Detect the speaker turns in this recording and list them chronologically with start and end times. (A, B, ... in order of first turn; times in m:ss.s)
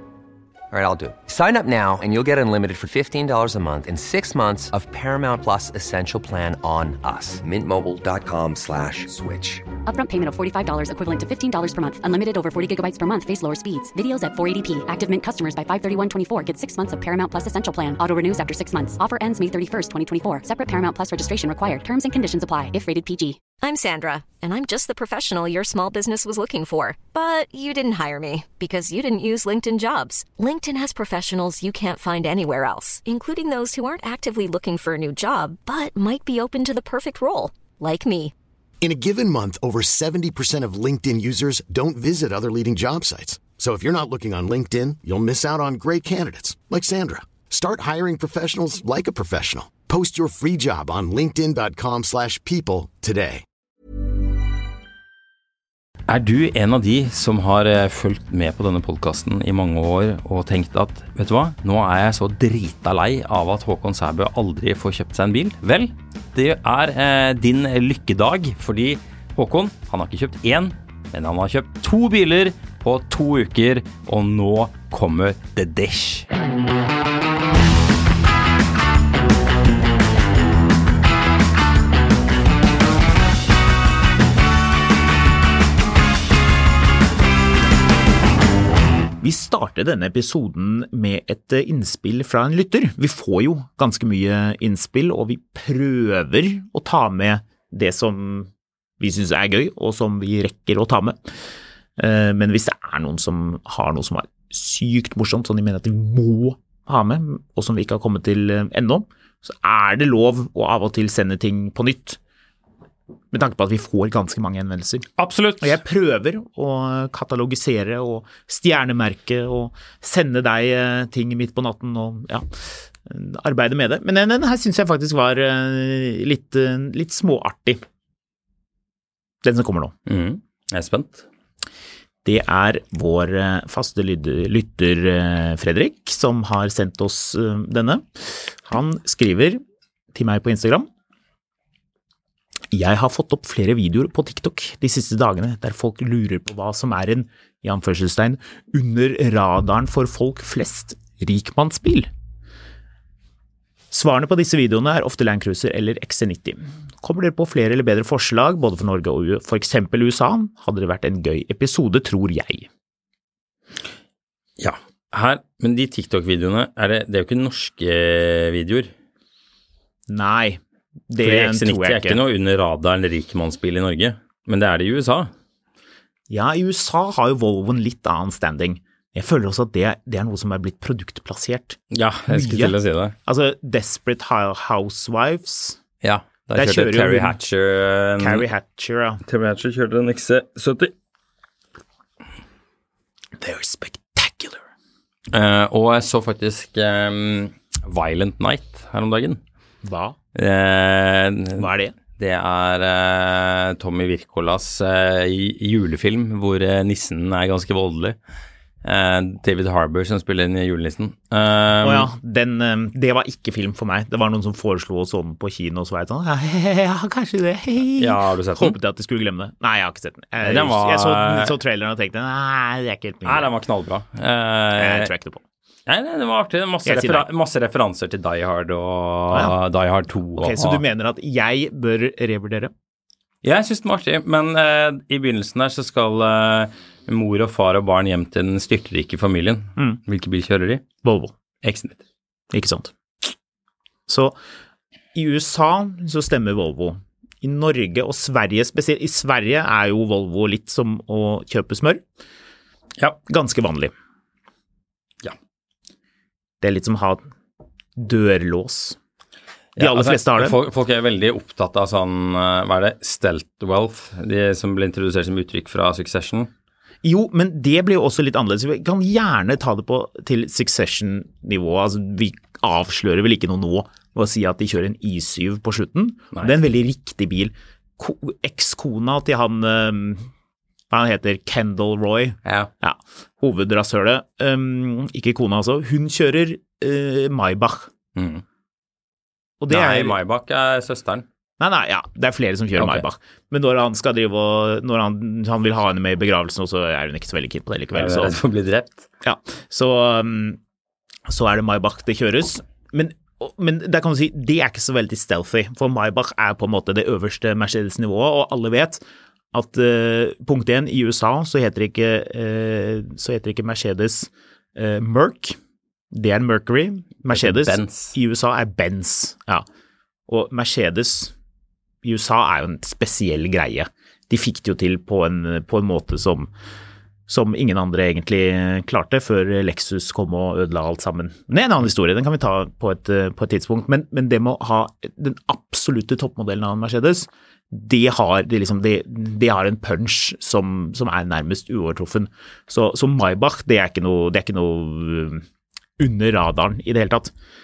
0:00.7-0:09.6 A
0:09.8-0:23.4 B
0:23.6-0:38.3 C
0:38.8-0:53.4 D
0:56.1-1:16.3 E
1:29.2-1:38.5 F
1:39.0-1:41.4 F
1:42.0-1:52.2 F
1:53.3-1:55.1 F
1:55.2-1:55.8 E
1:55.6-2:07.8 F
2:09.4-2:09.9 F
2:10.1-2:11.2 E
2:12.2-2:19.6 F
2:20.1-2:20.9 F
2:22.7-2:32.1 F
2:33.9-2:42.7 F
2:44.6-2:48.9 E
2:50.1-2:52.2 F
2:51.2-2:55.3 E
2:56.3-3:05.8 F
3:01.9-3:03.2 E
3:06.0-3:08.4 E
3:06.6-3:07.4 F
3:08.2-3:09.2 F
3:09.2-3:10.9 E
3:13.4-3:14.6 F
3:15.3-3:19.4 E
3:19.8-3:20.2 F
3:20.3-3:28.2 E
3:21.6-3:21.9 F
3:28.8-3:32.1 E
3:31.8-3:43.5 F
3:38.0-3:38.8 E
3:40.4-3:41.5 E
3:43.2-3:45.1 E
3:44.8-3:45.4 F
3:45.9-3:50.8 E
3:46.8-3:47.3 F
3:50.4-3:52.7 F
3:53.4-4:00.8 E
4:01.0-4:01.3 F
4:01.6-4:02.0 E
4:02.5-4:02.9 F
4:04.1-4:04.4 F
4:05.1-4:12.0 F
4:13.3-4:13.9 F
4:16.6-4:17.2 F
4:18.0-4:19.0 F
4:19.8-4:26.5 E
4:19.8-4:20.6 F
4:27.0-4:40.3 F
4:40.9-4:47.9 F
4:42.4-4:42.7 E
4:48.2-4:48.4 E
4:49.6-4:50.2 F
4:49.7-4:51.2 E
4:51.6-4:58.4 F
4:52.8-4:53.1 E
4:57.9-4:59.1 E
4:59.2-5:00.6 F
5:01.3-5:09.0 F
5:09.5-5:15.6 F
5:16.1-5:19.6 F
5:17.3-5:18.2 E
5:20.3-5:21.3 F
5:22.0-5:26.5 F
5:27.3-5:45.4 F
5:46.0-5:47.3 F